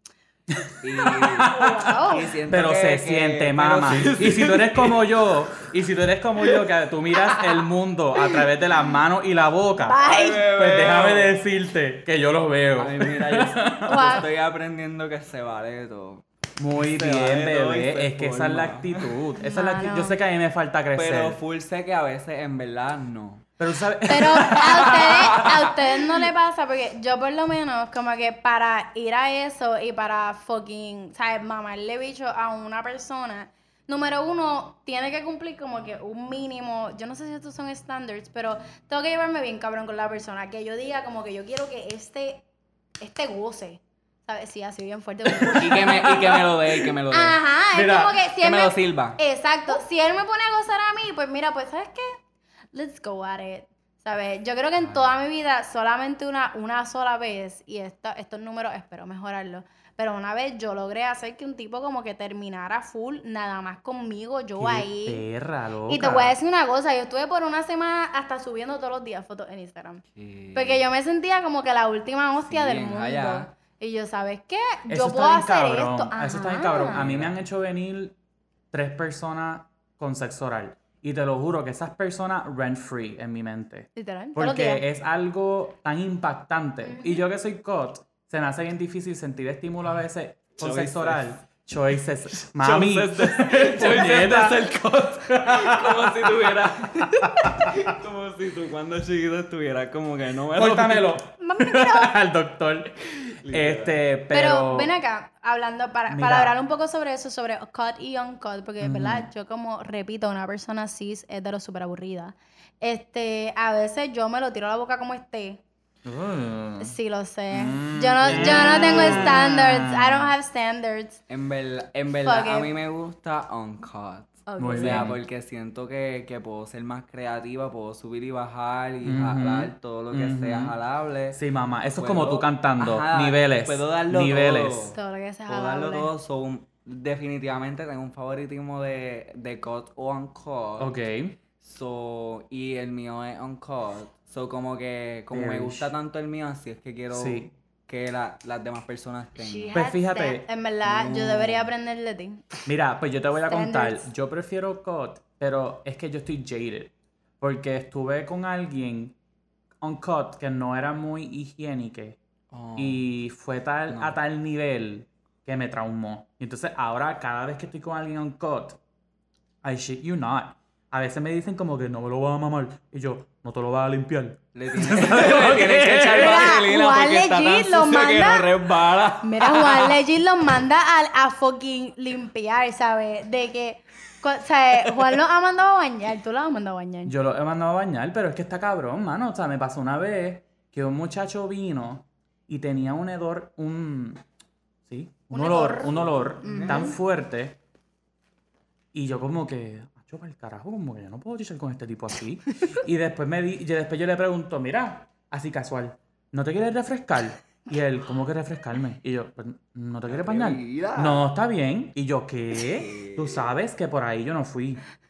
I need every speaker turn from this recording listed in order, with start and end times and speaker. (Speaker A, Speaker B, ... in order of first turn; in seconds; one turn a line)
Speaker A: 0.5-14.2
Speaker B: 0.8-5.6
Speaker C: 1.4-2.3
Speaker B: 7.2-7.6
Speaker C: 9.8-10.5
Speaker B: 10.0-11.3
Speaker B: 12.8-16.2
Speaker C: 13.8-14.3
Speaker A: 16.6-21.4
Speaker B: 16.7-19.1
Speaker C: 19.4-20.2
Speaker B: 20.9-23.4
Speaker A: 23.6-25.5
Speaker C: 24.1-42.4
Speaker B: 24.4-25.5
Speaker C: 43.0-52.2
Speaker B: 45.5-47.4
Speaker A: 47.7-48.2
Speaker B: 48.4-49.2
Speaker C: 52.7-65.2
Speaker B: 54.8-55.1
Speaker A: 64.5-66.4
Speaker C: 65.9-77.0
Speaker B: 70.1-70.8
Speaker B: 72.5-73.5
Speaker A: 74.9-78.1
Speaker B: 76.9-77.3
Speaker A: 78.7-94.6
Speaker C: 84.0-84.8
Speaker C: 86.8-87.2
Speaker B: 90.6-91.4
Speaker B: 92.6-101.2
Speaker A: 95.3-96.5
Speaker A: 97.3-97.9
Speaker A: 100.5-104.9
Speaker C: 101.4-102.2
Speaker B: 103.3-104.0
Speaker C: 104.3-115.6
Speaker A: 106.1-106.5
Speaker A: 108.8-109.3
Speaker A: 116.0-117.0
Speaker C: 116.8-121.2
Speaker A: 117.5-120.3
Speaker B: 118.2-119.4
Speaker B: 121.3-131.4
Speaker C: 122.2-122.7
Speaker C: 124.5-125.1
Speaker A: 124.6-125.2
Speaker A: 129.0-130.8
Speaker A: 131.3-134.9
Speaker B: 131.9-135.0
Speaker C: 134.9-136.1
Speaker B: 135.5-140.9
Speaker A: 140.8-141.3
Speaker B: 141.6-149.7
Speaker A: 145.3-145.9
Speaker A: 147.1-147.5
Speaker C: 149.4-152.7
Speaker A: 149.7-150.4
Speaker B: 150.8-151.7
Speaker A: 152.7-159.1
Speaker C: 153.5-154.1
Speaker A: 159.8-162.2
Speaker B: 162.5-163.1
Speaker A: 162.8-168.8
Speaker B: 163.9-164.2
Speaker A: 169.6-176.6
Speaker B: 174.5-180.0
Speaker C: 176.1-178.6
Speaker C: 179.2-187.1
Speaker A: 187.1-194.2
Speaker A: 194.9-197.6
Speaker C: 195.3-197.0
Speaker B: 196.0-196.9
Speaker A: 198.9-214.8
Speaker B: 210.1-211.2
Speaker B: 212.7-213.4